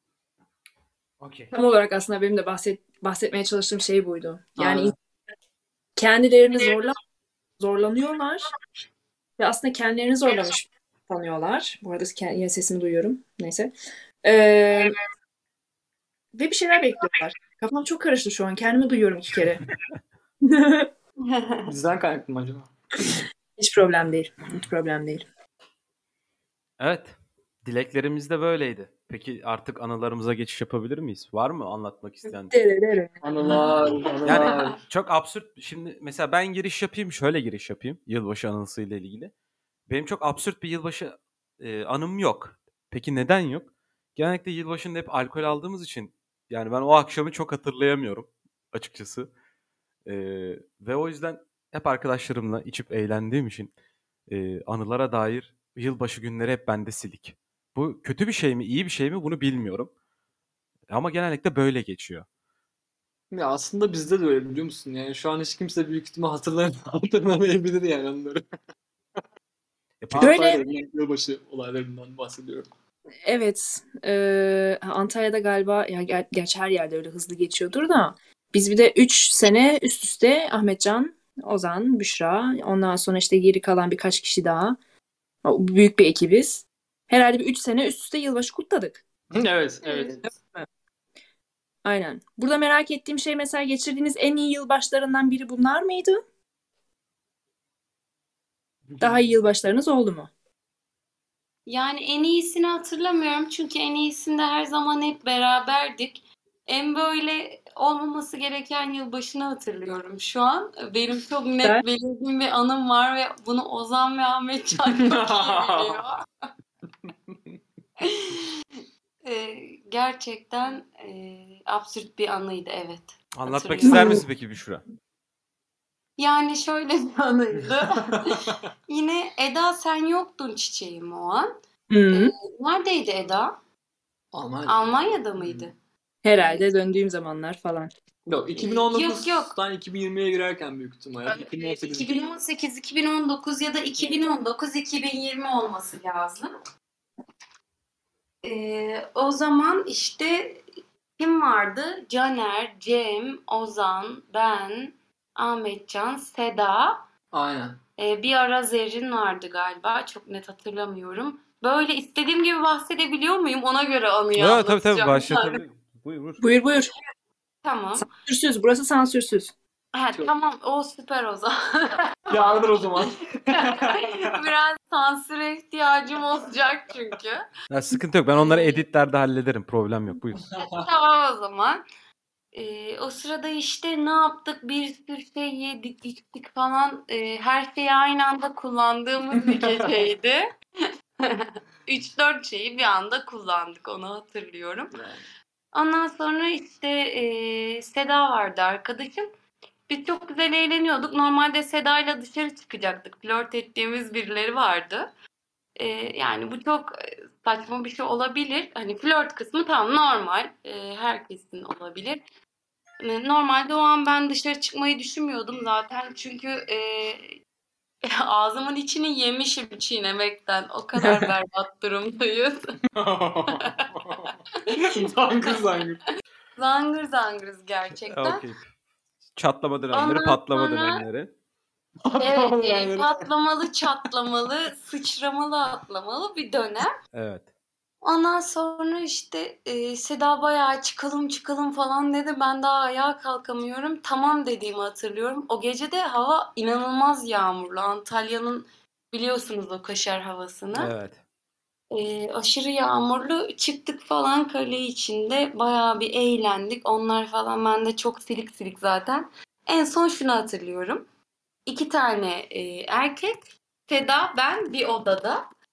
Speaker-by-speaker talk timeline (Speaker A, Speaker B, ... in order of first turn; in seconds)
Speaker A: 1.2-1.5, 26.8-32.5, 34.2-39.3, 39.9-49.3, 50.0-53.7, 54.3-59.9, 60.9-62.2, 70.0-70.4, 123.3-124.8, 164.3-166.5, 177.7-180.4, 228.1-228.7, 229.3-231.3, 237.1-237.5, 250.7-251.2
Speaker B: 1.5-4.9, 6.0-7.0, 7.6-8.5, 9.4-13.7, 14.2-15.0, 16.3-19.6, 20.4-20.9, 23.6-25.2, 32.5-33.8, 70.2-70.6, 73.2-84.8, 85.4-89.0, 89.8-90.7, 91.8-96.2, 99.0-100.3, 123.9-124.2, 131.9-132.3, 136.2-137.9, 166.4-166.9, 167.9-169.5, 221.0-221.3
Speaker C: 4.6-4.9, 21.7-23.0, 33.2-34.8, 63.3-68.4, 70.1-72.7, 89.3-90.3, 98.9-99.2, 114.8-116.1, 117.1-117.3, 128.0-128.6, 134.3-135.7, 138.3-142.2, 157.3-157.8, 172.3-174.3, 180.4-180.8, 194.9-195.2, 222.9-226.0, 232.0-233.2
Speaker D: 21.3-21.7, 101.7-116.2, 118.0-124.2, 126.2-131.5, 132.1-133.6, 134.7-135.7, 136.3-136.6, 138.5-139.5, 141.2-146.5, 148.4-150.6, 151.2-157.0, 158.0-165.6, 167.6-168.1, 169.9-172.4, 173.0-177.5, 178.3-178.8, 180.6-181.8, 182.5-190.5, 191.2-194.9, 195.7-199.3, 199.9-205.1, 205.8-212.2, 213.0-217.4, 218.0-222.8, 223.5-223.8, 224.5-225.6, 226.6-228.4, 229.9-231.0, 232.2-236.9, 238.0-250.9, 251.9-261.1, 261.6-265.5